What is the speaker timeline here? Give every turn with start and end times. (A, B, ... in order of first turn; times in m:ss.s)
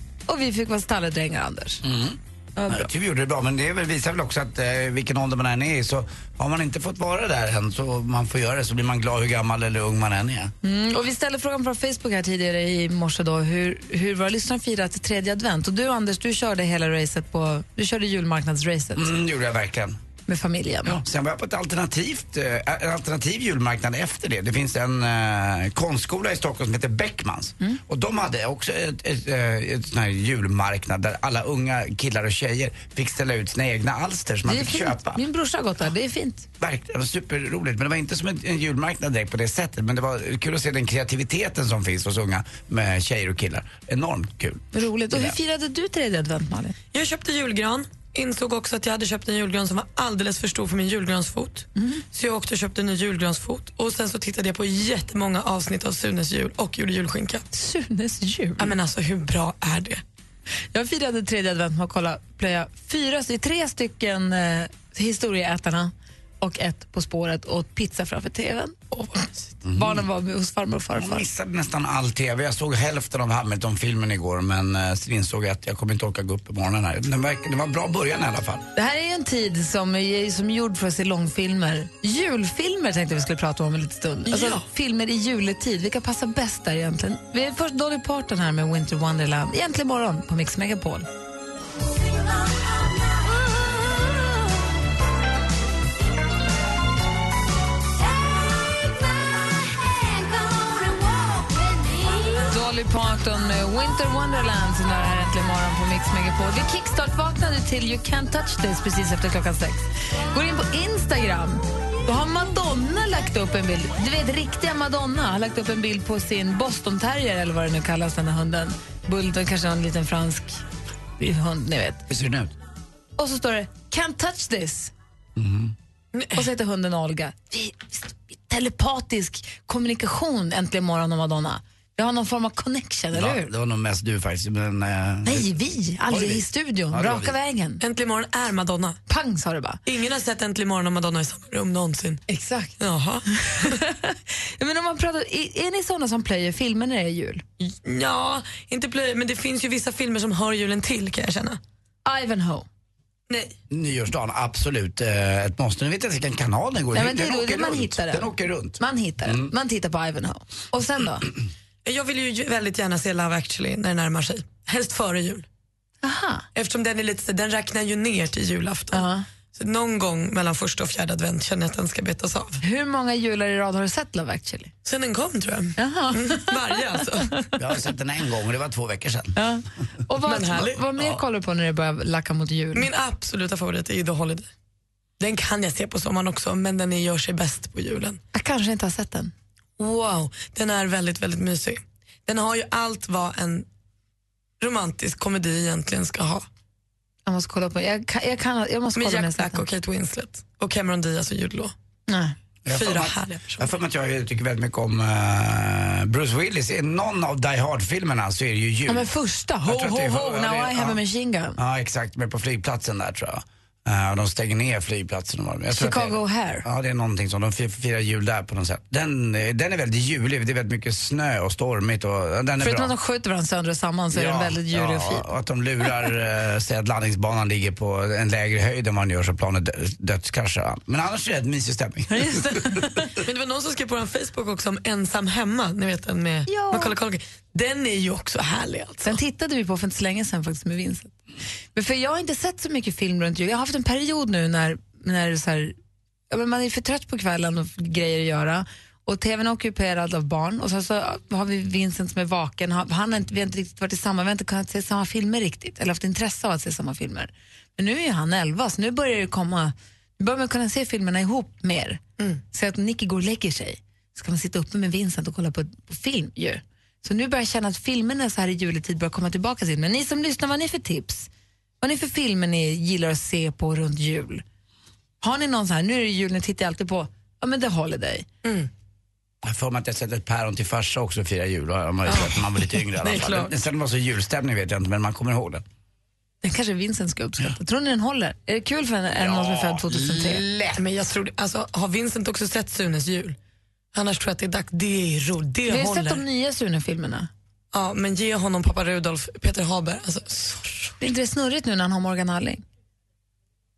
0:00.3-0:01.8 A
0:01.8-0:10.5 B
0:02.6-0:02.9 A
0:10.6-0:19.1 A
0:19.0-0:20.0 B
0:20.3-0:21.0 A
0:20.8-0:35.2 B
0:34.4-0:36.4 A
0:36.6-0:45.4 B
0:44.7-0:46.8 A
0:46.9-0:57.4 C
0:51.8-0:52.0 A
0:57.5-0:58.7 A
0:58.6-1:00.0 C
1:00.7-1:11.2 A
1:09.6-1:10.0 B
1:10.9-1:18.6 B
1:18.7-1:31.1 A
1:24.3-1:24.6 C
1:42.4-2:00.6 A
2:01.2-2:02.0 A
2:02.1-2:02.5 B
2:03.2-2:04.9 A
2:05.4-2:05.7 B
2:06.1-2:06.5 C
2:06.3-2:13.5 A
2:13.1-2:15.5 B
2:15.2-2:17.8 A
2:16.1-2:17.3 B
2:17.8-2:19.0 C
2:19.1-2:19.8 A
2:19.8-2:22.2 C
2:22.3-2:27.4 A
2:22.8-2:23.7 C
2:27.6-2:31.6 C
2:32.0-2:32.7 A
2:33.3-2:33.5 C
2:33.7-2:39.5 B
2:36.9-2:41.3 A
2:41.8-2:45.4 C
2:46.0-2:46.4 A
2:46.5-2:52.6 C
2:48.9-2:49.2 A
2:52.6-2:54.7 A
2:54.8-2:57.5 C
2:55.8-2:56.7 A
2:57.6-2:59.4 B
2:59.4-3:02.9 A
3:00.2-3:00.8 C
3:02.7-3:04.5 C
3:05.2-3:08.2 C
3:08.3-3:09.3 A
3:09.8-3:13.7 C
3:14.6-3:16.4 C
3:17.2-3:19.6 A
3:18.9-3:21.7 C
3:22.1-3:22.3 A
3:22.6-3:29.1 B
3:22.7-3:23.7 C
3:28.9-3:31.6 A
3:29.6-3:31.0 B
3:31.6-3:42.9 B
3:35.7-3:36.6 A
3:42.6-3:45.2 A
3:44.1-3:52.9 B
3:52.1-3:53.1 A
3:53.1-3:59.2 C
3:56.5-3:56.9 A
3:59.0-4:01.1 A
4:01.7-4:05.7 A
4:06.3-4:31.3 A
4:31.8-4:34.4 A
4:35.2-4:38.3 A
4:39.4-4:45.6 B
4:42.1-4:42.4 C
4:42.9-4:43.5 C
4:46.4-4:50.4 A
4:49.2-4:50.8 B
4:50.8-4:53.4 C
4:53.9-4:56.2 C
4:55.7-4:57.3 A
4:57.7-5:01.0 C
5:01.0-5:02.6 A